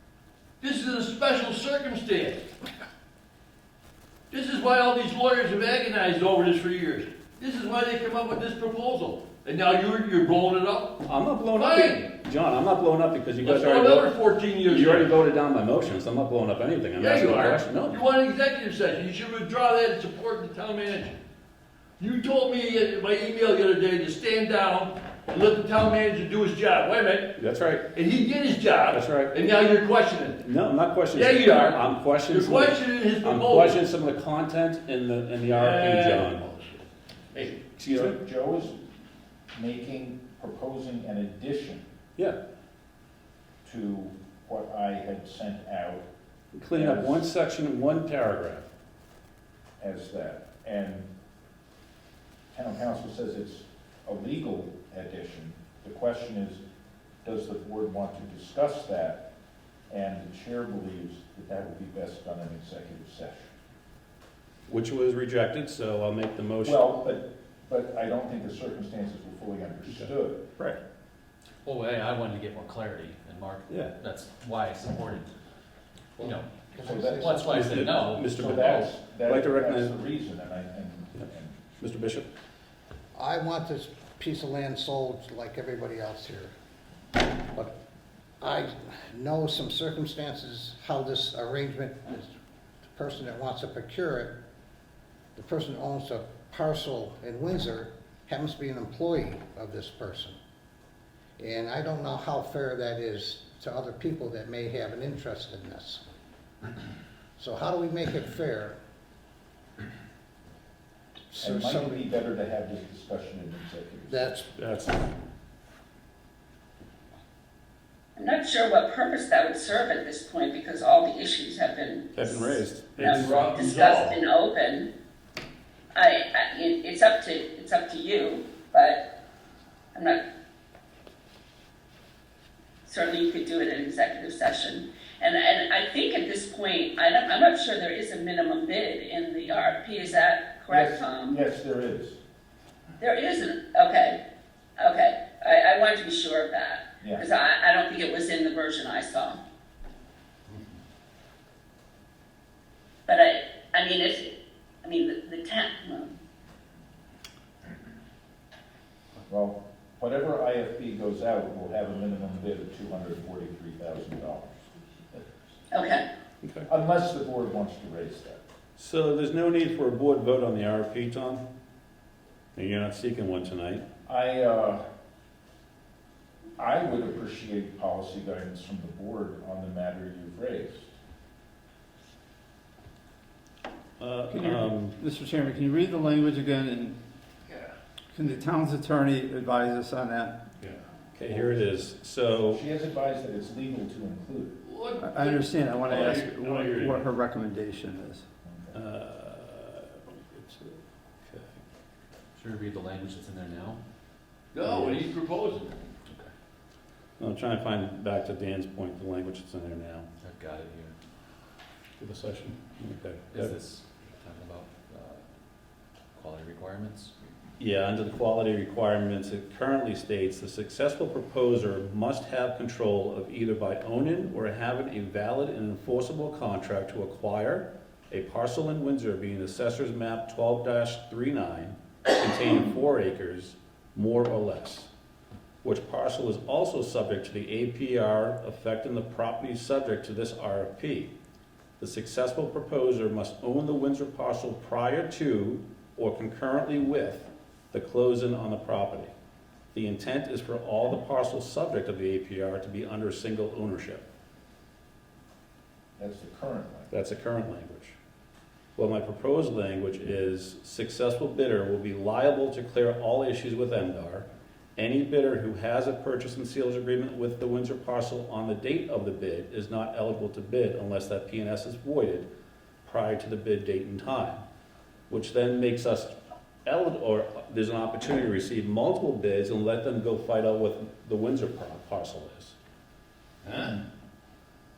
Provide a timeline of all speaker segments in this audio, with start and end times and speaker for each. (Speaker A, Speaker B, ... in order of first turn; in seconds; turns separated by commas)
Speaker A: 0.6-2.5, Speaker A: 4.3-12.1, Speaker B: 11.0-14.1, Speaker A: 13.4-15.2, Speaker B: 14.7-18.0, Speaker A: 17.0-21.2, Speaker A: 22.0-27.4, Speaker B: 27.4-27.9, Speaker A: 27.9-30.5, Speaker B: 28.9-29.3, Speaker B: 30.4-36.4, Speaker A: 31.1-33.8, Speaker A: 35.5-36.8, Speaker A: 37.3-37.6, Speaker B: 37.8-38.2, Speaker C: 37.9-38.8, Speaker C: 39.5-41.8, Speaker C: 43.6-46.1, Speaker B: 46.5-48.7, Speaker C: 46.7-47.3, Speaker C: 49.8-51.1, Speaker C: 52.5-56.6, Speaker C: 57.2-59.2, Speaker C: 59.9-63.5, Speaker B: 64.7-66.8, Speaker C: 66.6-70.5, Speaker D: 71.6-75.3, Speaker D: 76.2-78.5, Speaker E: 76.7-77.5, Speaker C: 76.8-77.7, Speaker B: 77.4-79.9, Speaker C: 78.3-81.6, Speaker B: 81.8-82.3, Speaker E: 83.2-86.5, Speaker E: 88.4-92.3, Speaker E: 93.0-94.3, Speaker E: 95.4-100.4, Speaker E: 101.4-106.0, Speaker E: 107.4-108.7, Speaker E: 111.3-112.0, Speaker C: 111.4-114.4, Speaker E: 114.1-114.5, Speaker B: 114.5-115.0, Speaker F: 118.2-124.9, Speaker B: 122.2-123.5, Speaker A: 123.0-124.2, Speaker F: 126.0-129.0, Speaker F: 129.9-130.2, Speaker F: 132.8-141.4, Speaker C: 140.7-142.2, Speaker F: 143.0-144.2, Speaker F: 144.8-149.4, Speaker C: 147.0-147.3, Speaker F: 153.1-156.2, Speaker C: 159.3-164.5, Speaker F: 165.7-166.1, Speaker C: 166.7-168.4, Speaker B: 168.8-171.4, Speaker B: 172.6-173.8, Speaker C: 174.1-174.8, Speaker C: 176.6-180.9, Speaker B: 184.0-184.9, Speaker G: 184.3-187.0, Speaker G: 188.1-190.3, Speaker B: 191.2-192.6, Speaker C: 192.5-194.6, Speaker A: 194.6-197.1, Speaker G: 195.0-198.2, Speaker C: 198.4-198.8, Speaker B: 198.8-201.6, Speaker D: 202.4-203.8, Speaker A: 204.5-205.8, Speaker B: 204.6-205.0, Speaker D: 206.1-206.3, Speaker B: 207.2-210.1, Speaker D: 210.2-210.9, Speaker B: 212.0-213.6, Speaker D: 213.3-215.2, Speaker D: 216.2-217.3, Speaker B: 217.6-234.9, Speaker B: 235.6-241.1, Speaker B: 241.8-249.1, Speaker B: 249.7-254.1, Speaker C: 256.0-256.9, Speaker B: 256.9-258.0, Speaker B: 258.8-272.3, Speaker B: 272.8-274.4, Speaker B: 275.1-282.6, Speaker A: 283.4-283.8